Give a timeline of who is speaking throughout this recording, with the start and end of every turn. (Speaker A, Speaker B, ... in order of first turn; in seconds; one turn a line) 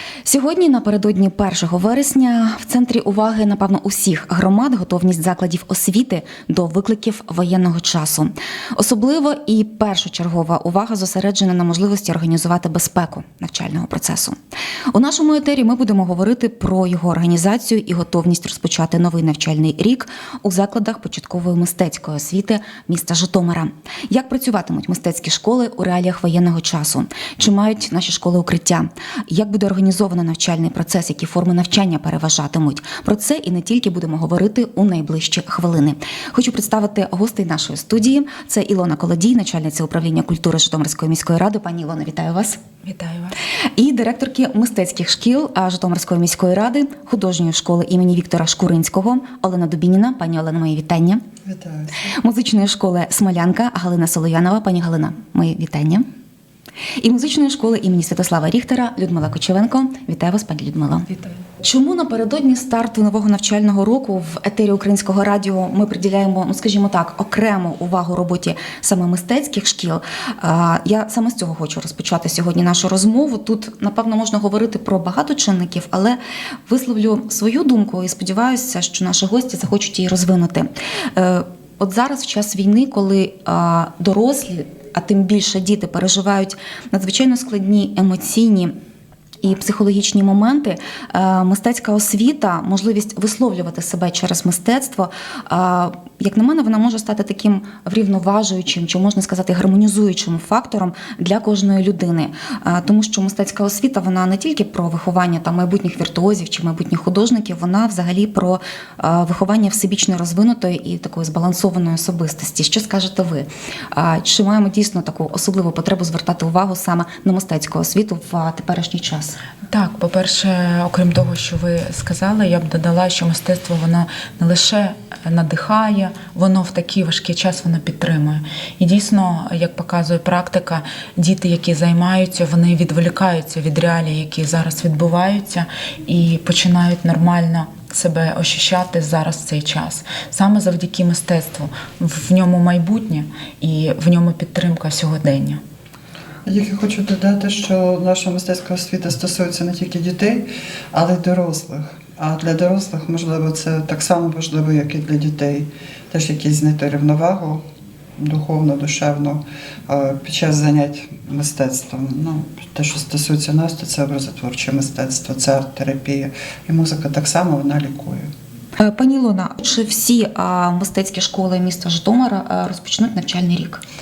Speaker A: 0.3-14.4
Speaker A: 14.9-42.6
Speaker B: 42.8-43.4
Speaker A: 43.8-51.2
Speaker C: 51.5-52.0
Speaker A: 52.1-56.1
Speaker A: 57.0-61.1
Speaker A: 61.6-88.7
Speaker A: 89.4-119.4
Speaker B: 119.7-145.6
Speaker C: 146.5-157.7
Speaker C: 158.2-168.3
Speaker A: 168.8-173.8